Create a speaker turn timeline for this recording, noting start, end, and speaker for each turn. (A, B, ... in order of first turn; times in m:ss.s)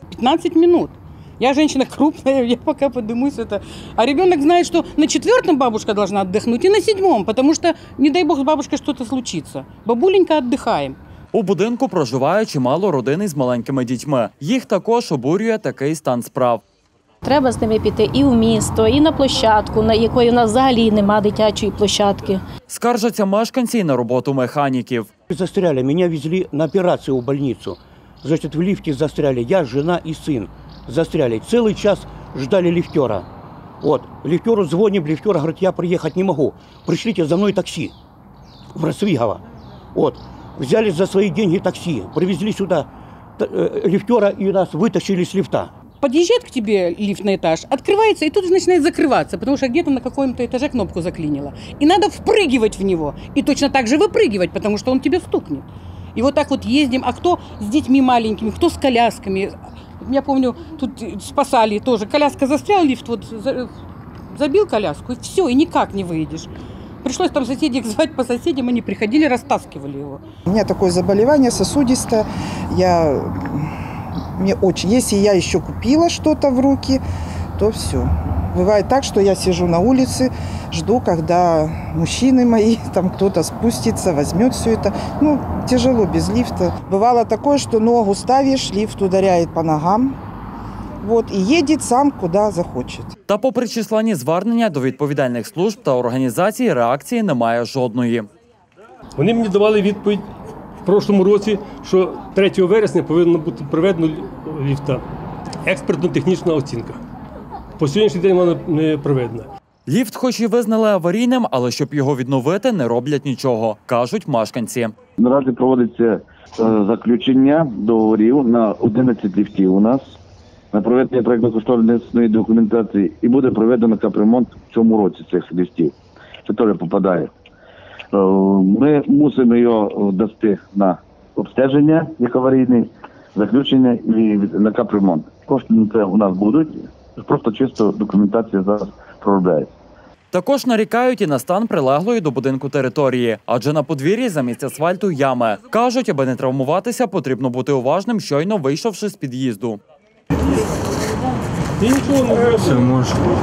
0:00.1-0:11.0 A
0:11.3-0:16.6 B
0:17.2-0:22.4 C
0:22.7-0:25.1 B
0:25.3-0:33.3 D
0:33.8-0:37.9 D
0:38.7-0:39.4 D
0:39.9-0:45.7 D
0:46.0-1:03.7 A
1:04.3-1:06.5 A
1:07.0-1:10.2 A
1:10.5-1:13.7 E
1:14.4-1:17.0 E
1:17.6-1:30.2 E
1:31.0-1:33.1 E
1:33.3-1:38.3 B
1:39.2-1:40.3 F
1:40.8-1:45.0 F
1:45.6-1:47.0 F
1:47.8-1:49.5 F
1:49.9-1:54.9 B
1:55.2-2:00.0 G
2:00.7-2:05.9 G
2:06.5-2:07.3 G
2:08.1-2:19.7 G
2:20.3-2:29.8 B
2:31.8-2:33.1 F